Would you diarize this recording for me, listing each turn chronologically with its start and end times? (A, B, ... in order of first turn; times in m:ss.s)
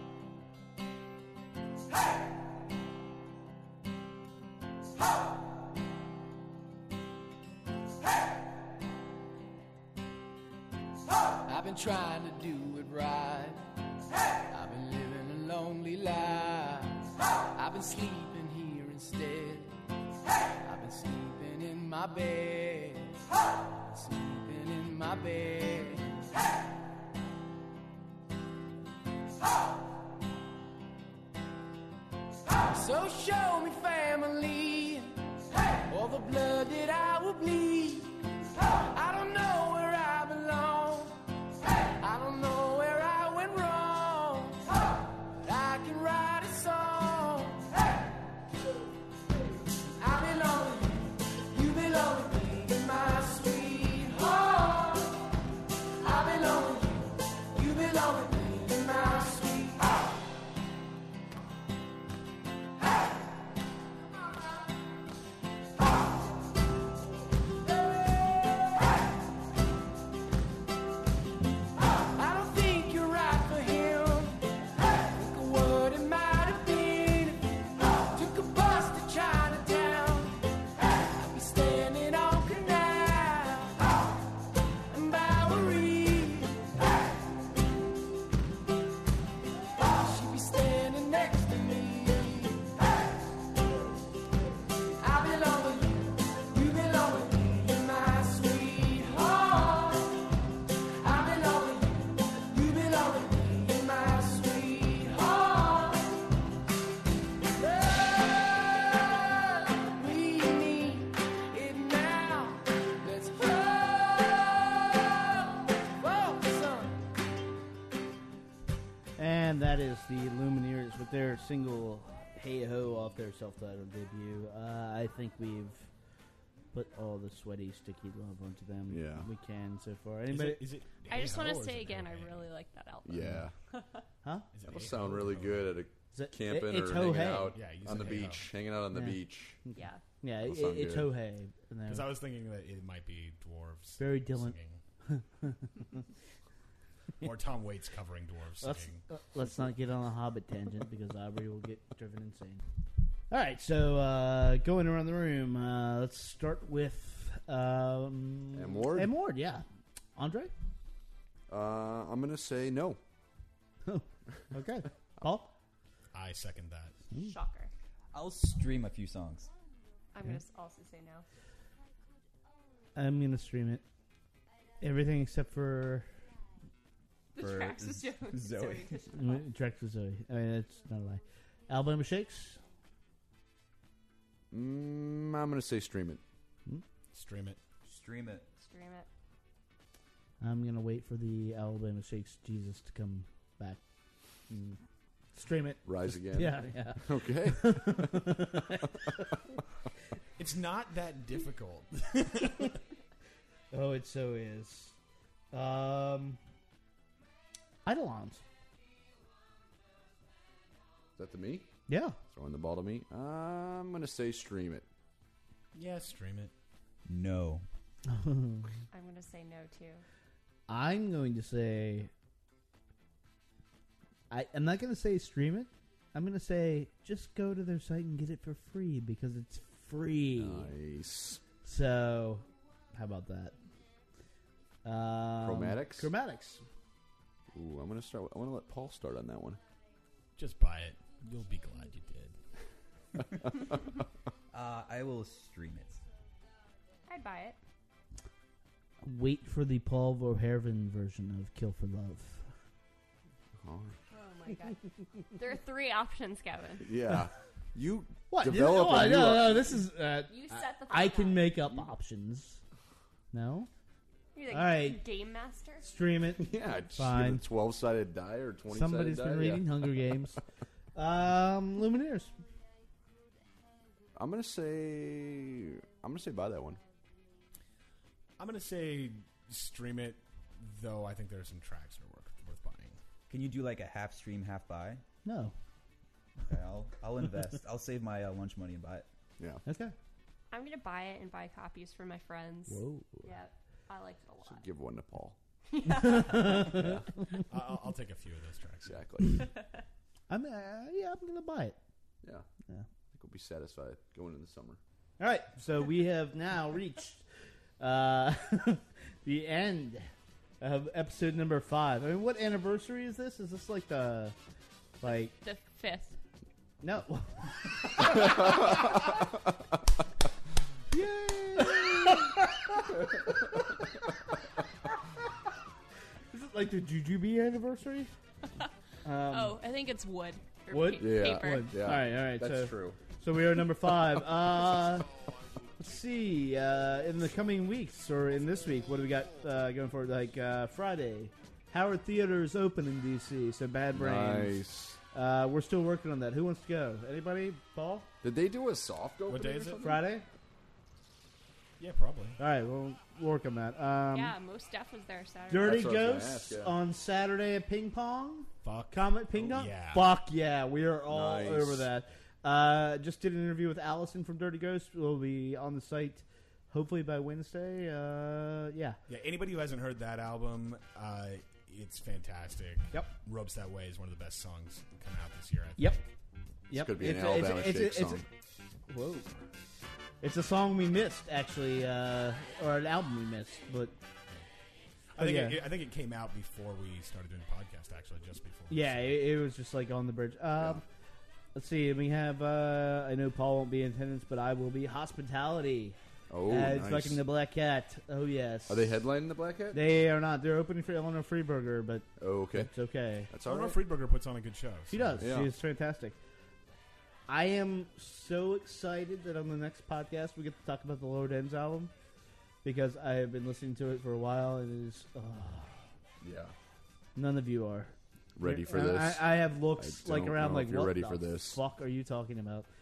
0:11.5-0:13.6 A
0:14.5-0:17.0 A
0:17.6-0:19.7 A
0:20.6-0:23.1 A
0:23.9-0:26.0 A
0:32.7-0:35.1 A
0:35.9-0:38.1 A
0:38.9-0:41.1 A
0:42.0-0:44.6 A
0:45.4-0:47.7 A
0:50.0-0:55.0 A
0:56.0-0:59.8 A
1:12.2-1:14.4 A
1:15.1-1:17.4 A
1:18.1-1:20.4 A
1:21.2-1:23.8 A
1:24.9-1:26.6 A
1:29.9-1:32.7 A
1:35.0-1:40.0 A
1:41.0-1:46.0 A
1:48.2-1:55.5 A
1:56.0-1:57.0 A
1:59.2-2:05.9 B
2:06.7-2:10.6 B
2:08.9-2:09.3 C
2:10.3-2:12.5 D
2:11.1-2:14.0 E
2:13.0-2:13.5 C
2:13.2-2:13.5 B
2:14.5-2:15.8 D
2:14.7-2:19.6 C
2:16.1-2:17.6 B
2:17.5-2:18.5 D
2:18.9-2:22.1 B
2:19.7-2:20.0 E
2:20.4-2:21.1 C
2:21.9-2:24.8 D
2:24.0-2:24.5 B
2:25.1-2:25.8 B
2:27.2-2:29.0 D
2:28.6-2:32.6 B
2:33.3-2:39.6 B
2:38.5-2:39.1 C
2:40.2-2:40.5 B
2:41.5-2:43.0 C
2:43.8-2:45.5 B
2:46.1-2:47.0 D
2:47.1-2:47.7 E
2:48.1-2:49.5 F
2:50.1-2:51.2 E
2:52.9-2:53.8 B
2:54.8-2:56.1 B
2:57.3-2:59.4 E
2:57.4-2:59.0 F
2:59.1-3:02.6 B
3:04.5-3:06.2 C
3:07.1-3:07.6 D
3:07.8-3:08.4 F
3:08.6-3:09.1 E
3:10.4-3:13.8 B
3:14.5-3:14.8 B
3:15.3-3:19.4 B
3:15.8-3:18.5 C
3:20.4-3:22.8 D
3:23.7-3:24.9 B
3:25.5-3:26.4 B
3:27.8-3:28.4 B
3:31.2-3:31.7 C
3:31.9-3:32.2 B
3:32.3-3:34.9 C
3:35.7-3:36.5 D
3:37.0-3:37.6 F
3:38.1-3:38.7 B
3:38.9-3:40.0 E
3:40.7-3:42.1 B
3:44.3-3:50.7 B
3:50.4-3:51.4 C
3:51.6-3:53.5 B
3:54.8-3:56.6 B
3:55.4-3:56.1 C
3:57.5-3:59.6 C
4:00.4-4:02.4 D
4:04.5-4:06.0 F
4:07.1-4:07.6 E
4:09.0-4:12.5 B
4:13.6-4:14.0 C
4:14.1-4:14.8 E
4:15.3-4:16.9 E
4:16.8-4:19.8 C
4:18.3-4:22.6 B
4:20.3-4:21.6 E
4:23.3-4:23.7 B
4:24.3-4:25.9 E
4:24.5-4:25.0 B
4:25.8-4:27.4 B
4:26.4-4:30.1 C
4:28.7-4:30.4 B
4:30.9-4:32.3 B
4:34.2-4:36.8 C
4:38.4-4:43.0 D
4:43.3-4:45.0 F
4:45.2-4:45.5 B
4:46.5-4:49.1 F
4:49.4-4:49.6 C
4:49.6-4:49.9 B
4:50.5-4:54.6 E
4:52.7-4:53.3 B
4:54.4-4:55.4 C
4:55.7-4:56.8 E
4:55.9-4:57.4 B
4:56.7-4:57.0 C
4:57.5-4:59.0 D
4:58.8-4:59.4 C
5:00.3-5:01.8 B
5:03.1-5:04.8 C
5:05.2-5:07.2 B
5:07.8-5:10.1 B
5:10.6-5:14.4 B
5:15.0-5:15.3 B
5:15.0-5:16.2 E
5:16.8-5:19.0 B
5:18.2-5:18.5 C
5:20.9-5:24.0 B
5:26.3-5:28.1 B
5:29.0-5:29.6 B
5:29.3-5:31.8 E
5:30.7-5:35.1 B
5:31.0-5:33.0 C
5:35.8-5:48.1 B
5:43.9-5:45.0 C
5:48.2-5:50.0 C
5:49.3-5:49.9 D
5:49.8-5:50.2 B
5:51.8-5:52.4 D
5:52.4-5:54.3 B
5:54.1-5:55.9 E
5:55.5-6:09.0 B
5:55.6-5:56.8 C
5:58.6-6:00.1 D
6:01.1-6:01.9 C
6:09.1-6:16.0 D
6:16.7-6:18.2 B
6:16.7-6:18.2 C
6:18.9-6:19.4 B
6:20.2-6:23.9 B
6:25.2-6:29.1 D
6:25.2-6:25.6 B
6:28.7-6:30.8 B
6:30.6-6:30.8 C
6:31.5-6:36.0 B
6:36.3-6:37.2 C
6:36.5-6:39.0 B
6:38.7-6:39.8 C
6:39.7-6:43.3 B
6:42.2-6:42.7 C
6:43.3-6:43.8 C
6:43.4-6:45.2 D
6:44.9-6:46.2 B
6:45.2-6:45.5 C
6:47.3-6:51.9 B
6:52.6-6:55.8 B
6:56.2-6:56.5 C
6:57.2-7:02.7 B
6:58.4-7:01.6 C